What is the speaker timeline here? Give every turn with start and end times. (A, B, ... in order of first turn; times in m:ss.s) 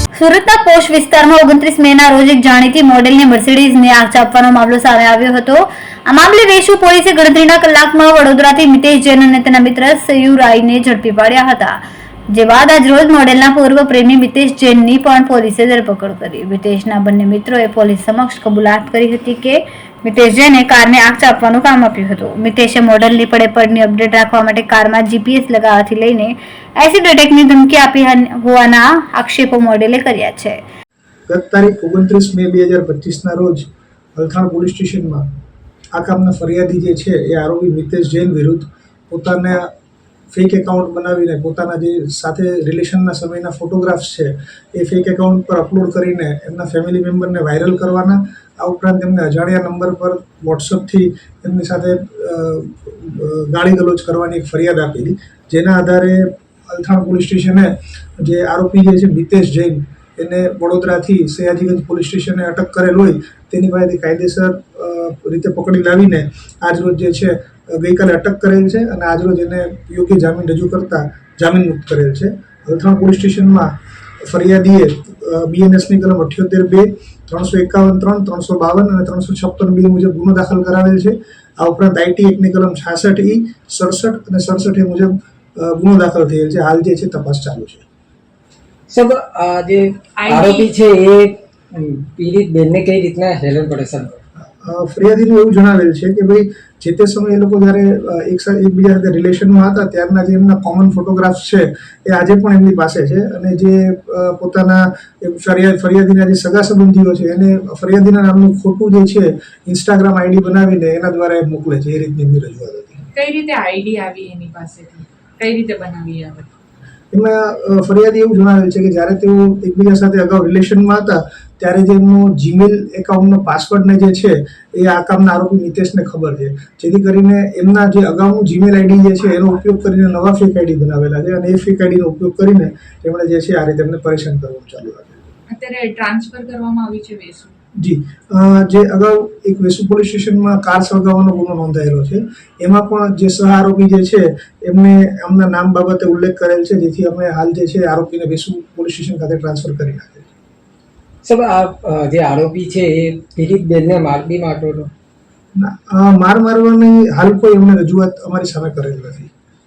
0:00.2-0:30.6 A
0:31.3-0:33.6 B
0:34.2-0:35.2 B
0:35.9-0:39.7 B
0:40.3-1:13.7 B
1:14.2-1:27.8 B
1:28.9-1:34.2 C
1:30.2-1:30.7 D
1:34.6-1:53.0 B
1:53.2-1:56.5 D
1:57.1-2:15.2 B
2:15.5-2:17.6 D
2:17.8-2:30.3 B
2:31.2-2:34.9 C
2:35.6-2:39.3 B